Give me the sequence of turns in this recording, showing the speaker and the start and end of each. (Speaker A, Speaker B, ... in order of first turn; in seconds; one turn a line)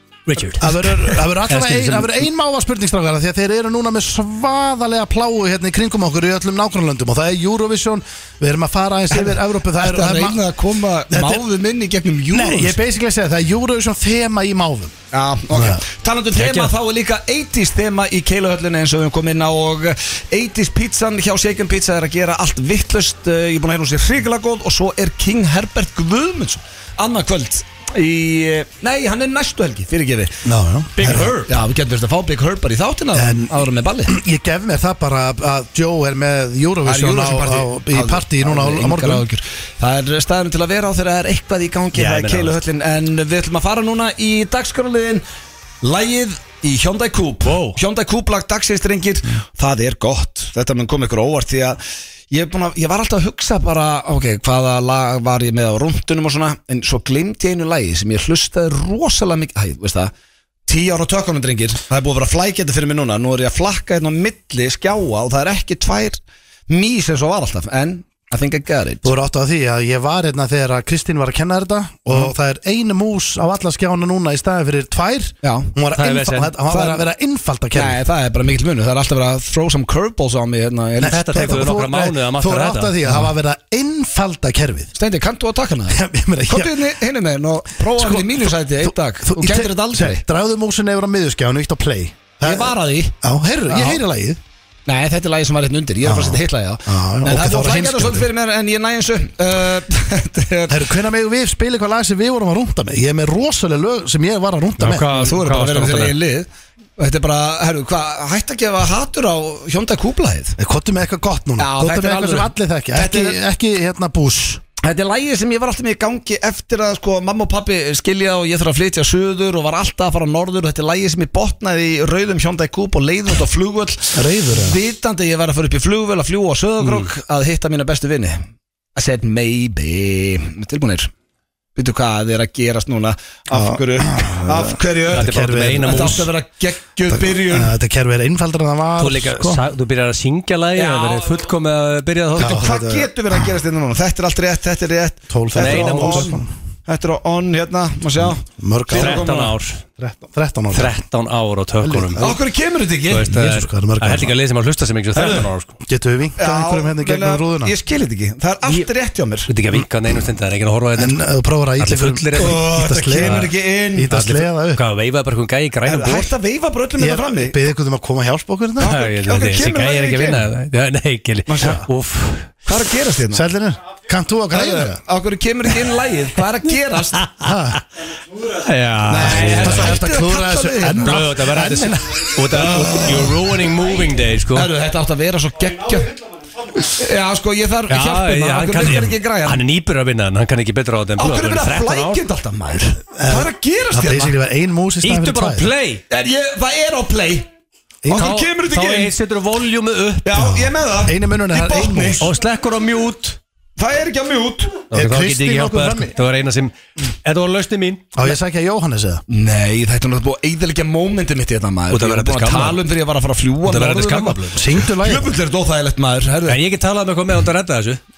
Speaker A: 0.3-0.8
Speaker B: 0.6-10.4
Speaker A: 1.5-2.2
Speaker C: 9.1-12.8
Speaker B: 11.1-11.4
Speaker B: 12.3-14.9
Speaker C: 15.1-30.4
Speaker B: 15.5-15.8
Speaker A: 16.3-16.7
Speaker B: 30.4-31.4
Speaker A: 31.0-31.5
Speaker C: 31.0-34.1
Speaker B: 33.1-39.3
Speaker C: 36.8-45.2
Speaker A: 41.9-42.6
Speaker C: 45.8-51.8
Speaker A: 47.4-47.8
Speaker C: 52.3-60.1
Speaker C: 60.7-69.1
Speaker B: 69.0-78.0
Speaker C: 75.4-75.7
Speaker A: 75.9-76.5
Speaker C: 76.7-77.0
Speaker C: 77.7-81.7
Speaker A: 81.0-83.0
Speaker B: 81.0-84.9
Speaker C: 85.0-90.2
Speaker B: 85.9-86.9
Speaker B: 87.9-94.4
Speaker C: 92.4-93.1
Speaker C: 93.7-94.0
Speaker C: 94.9-100.8
Speaker B: 96.0-98.3
Speaker B: 100.7-105.0
Speaker A: 104.8-106.2
Speaker C: 105.1-110.6
Speaker B: 110.6-114.6
Speaker C: 111.6-113.4
Speaker C: 114.8-128.4
Speaker B: 124.1-124.8
Speaker A: 126.8-127.1
Speaker C: 128.9-131.1
Speaker C: 131.8-137.7
Speaker B: 133.5-136.3
Speaker A: 135.1-136.3
Speaker B: 137.1-139.6
Speaker A: 139.0-142.7
Speaker C: 140.8-141.4
Speaker C: 142.3-149.5
Speaker B: 142.4-143.3
Speaker B: 145.3-146.5
Speaker A: 145.6-146.3
Speaker B: 148.2-149.3
Speaker A: 148.9-149.8
Speaker B: 150.0-150.9
Speaker A: 150.7-152.3
Speaker B: 151.8-152.3
Speaker C: 152.2-153.4
Speaker A: 153.1-155.8
Speaker B: 153.3-154.3
Speaker C: 155.2-155.4
Speaker B: 155.8-157.7
Speaker C: 156.4-159.5
Speaker A: 159.5-161.2
Speaker B: 160.9-164.8
Speaker A: 161.8-163.5
Speaker C: 162.3-164.1
Speaker A: 164.1-166.3
Speaker C: 165.8-167.6
Speaker B: 167.0-169.0
Speaker C: 168.8-170.4
Speaker A: 168.8-172.5
Speaker C: 171.5-171.8
Speaker C: 172.7-173.4
Speaker B: 173.3-175.0
Speaker C: 174.5-177.2
Speaker A: 177.2-177.5
Speaker B: 177.4-177.8
Speaker A: 178.4-180.0
Speaker C: 179.1-181.2
Speaker B: 179.1-182.0
Speaker A: 181.0-184.7
Speaker C: 182.5-183.5
Speaker C: 184.5-186.2
Speaker C: 186.8-189.6
Speaker A: 187.9-192.2
Speaker C: 191.2-194.3
Speaker B: 193.1-195.7
Speaker A: 195.0-196.0
Speaker C: 196.1-197.5
Speaker B: 198.0-198.4
Speaker C: 198.1-199.1
Speaker A: 198.1-200.3
Speaker C: 200.2-202.3
Speaker B: 200.3-202.3
Speaker A: 202.2-203.4
Speaker C: 203.8-204.8
Speaker A: 204.9-208.1
Speaker B: 204.9-206.1
Speaker B: 208.1-209.2
Speaker C: 209.3-216.6
Speaker A: 211.9-212.8
Speaker A: 213.6-214.7
Speaker B: 214.5-215.4
Speaker A: 216.5-218.0